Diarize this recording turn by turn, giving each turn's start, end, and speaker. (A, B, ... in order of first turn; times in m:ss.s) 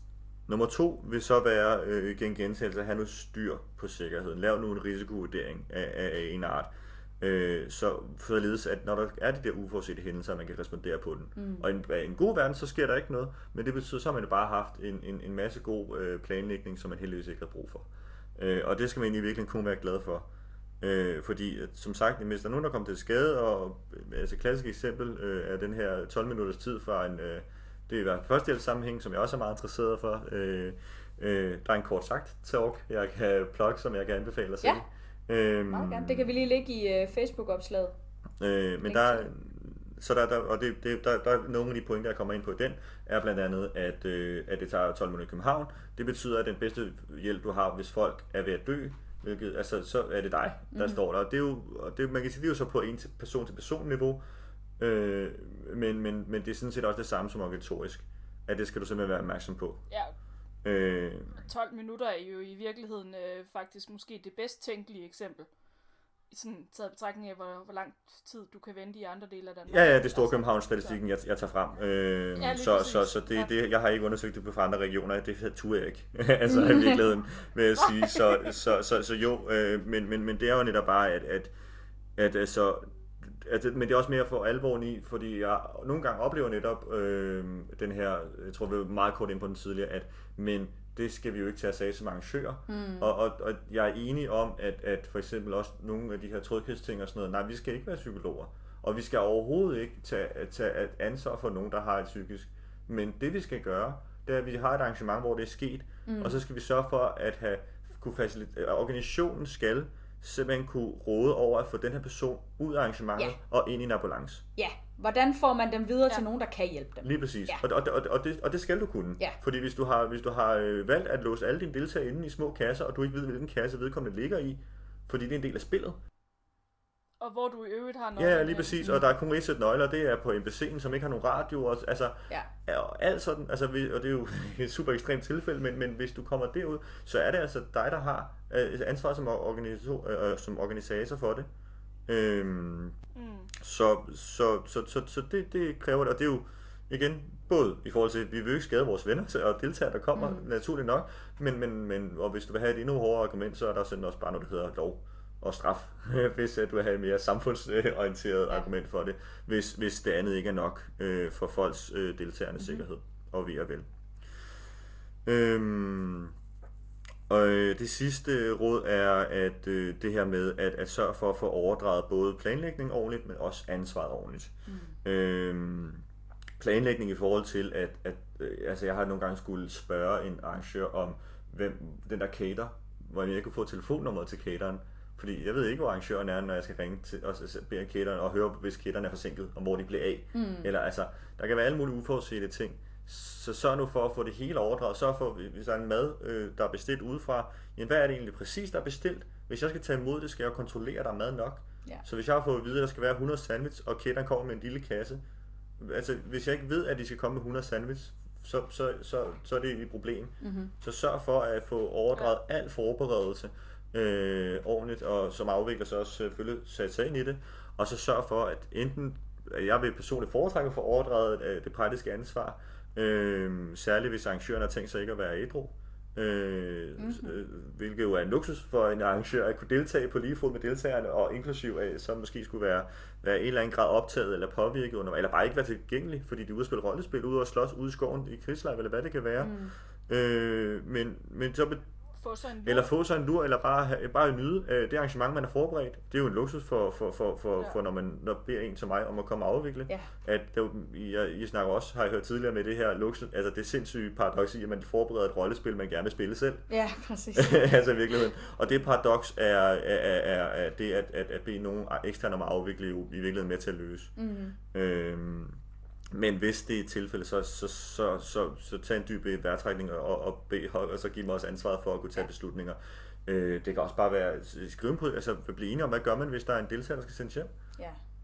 0:00.5-0:20.3 A
0:11.4-0:11.7 B
0:20.8-0:36.3 A
0:35.7-0:37.9 B
0:38.4-0:54.2 A
0:38.8-0:39.3 B
0:50.7-0:51.0 B
0:54.8-0:59.8 A
1:00.6-1:01.4 A
1:01.4-1:05.5 C
1:06.3-1:11.0 C
1:09.7-1:21.5 A
1:12.4-1:13.5 C
1:16.5-1:17.0 B
1:17.8-1:18.5 C
1:22.2-1:54.4 A
1:32.7-1:33.1 B
1:46.1-1:46.4 B
1:54.6-1:57.6 B
1:57.0-2:06.0 A
2:07.2-2:08.8 C
2:08.2-2:21.5 A
2:22.1-2:23.0 A
2:23.1-2:23.5 C
2:23.6-2:43.9 A
2:30.1-2:30.5 B
2:45.2-2:46.3 A
2:47.3-2:56.0 A
2:54.6-2:55.0 B
2:56.6-3:25.2 A
3:10.3-3:10.7 B
3:25.8-3:59.5 A
3:30.4-3:30.7 B
3:47.0-3:47.4 B
3:59.4-3:59.7 B
4:00.1-4:01.9 A
4:02.2-4:02.9 C
4:02.6-4:16.6 A
4:16.7-4:17.7 B
4:17.3-4:24.1 A
4:24.2-4:24.6 B
4:24.6-4:25.6 A
4:26.1-4:37.5 A